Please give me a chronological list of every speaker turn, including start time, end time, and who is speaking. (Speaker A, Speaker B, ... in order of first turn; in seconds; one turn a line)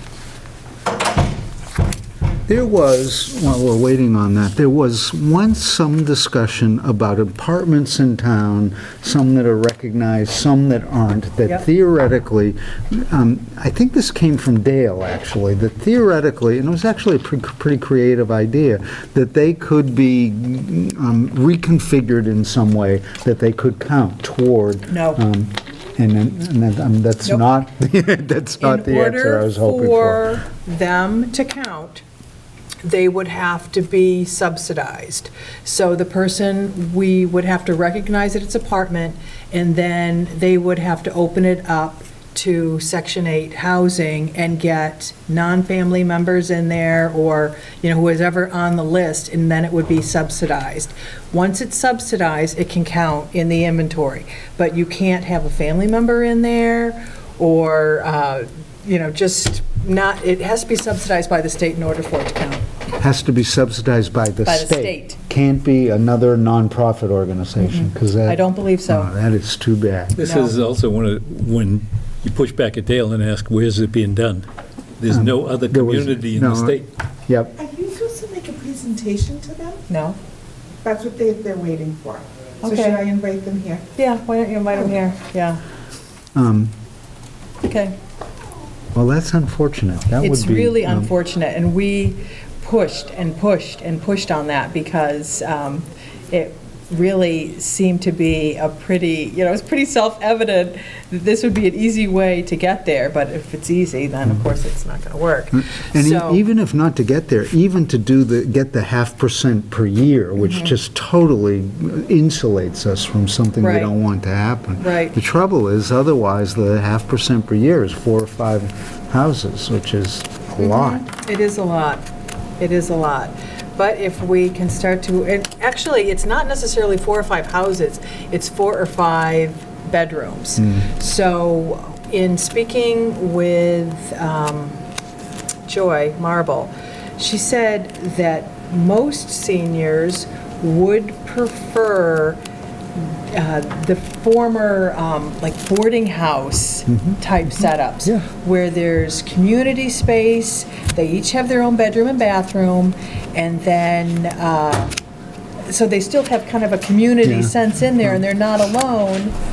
Speaker A: 2.5-30.3
Speaker B: 24.9-25.2
Speaker B: 28.6-32.0
Speaker B: 32.8-62.7
Speaker A: 63.0-70.2
Speaker B: 64.4-65.2
Speaker B: 67.6-69.1
Speaker C: 70.2-74.5
Speaker B: 70.2-70.5
Speaker C: 75.0-76.9
Speaker A: 75.1-77.5
Speaker D: 77.6-79.8
Speaker B: 79.9-80.2
Speaker D: 80.8-83.8
Speaker B: 82.6-83.0
Speaker B: 84.0-85.6
Speaker A: 86.3-86.7
Speaker B: 87.6-88.0
Speaker A: 88.9-91.1
Speaker B: 90.2-106.4
Speaker A: 105.5-121.0
Speaker B: 110.4-110.7
Speaker B: 113.6-113.9
Speaker B: 114.8-115.2
Speaker B: 120.6-122.0
Speaker B: 122.6-134.8
Speaker A: 130.6-130.8
Speaker B: 135.7-142.4
Speaker B: 142.9-154.9
Speaker A: 146.9-148.2
Speaker B: 155.7-159.3
Speaker A: 157.2-158.2